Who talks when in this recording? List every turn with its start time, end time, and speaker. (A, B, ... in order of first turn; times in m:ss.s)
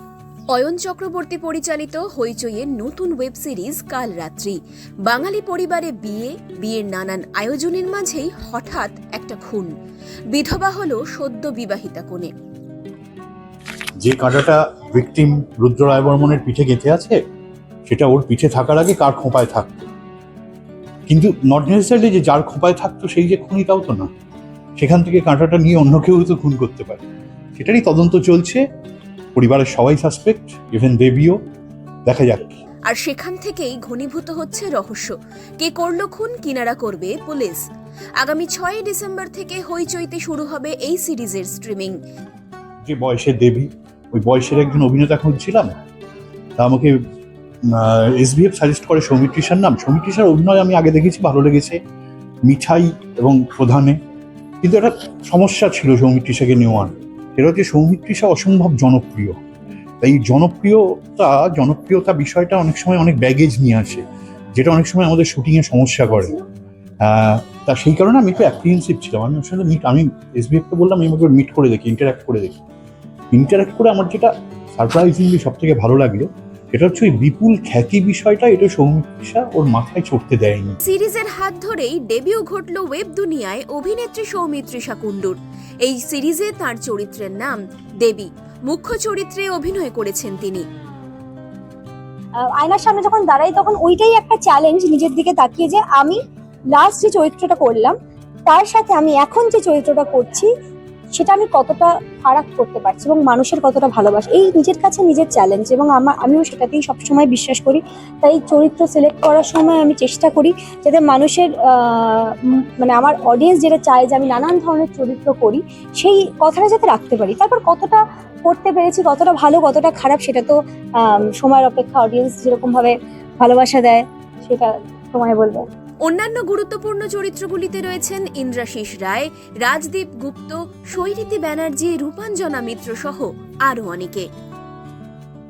0:00.5-0:09.7 A
0:10.3-0:12.3 A
0:14.0-0:17.2 B
0:17.9-0:19.8 B
0:21.1-0:24.1 B
0:24.8-0:27.0 B
0:27.6-0:28.6 B
0:29.3-0:31.4 B
0:32.0-0:32.6 B
0:32.9-0:37.6 A
0:38.2-0:42.0 A
0:42.9-0:45.7 B
0:46.6-0:47.0 B
0:47.7-0:51.8 B
0:52.5-0:54.0 B
0:54.6-0:59.4 B
1:00.0-1:04.0 B
1:04.6-1:06.4 B
1:07.0-1:12.6 B
1:13.3-1:20.8 B
1:20.8-1:30.6 A
1:32.4-1:36.2 C
1:36.7-1:38.0 C
1:38.5-1:40.5 C
1:41.1-2:05.6 C
2:06.0-2:14.3 A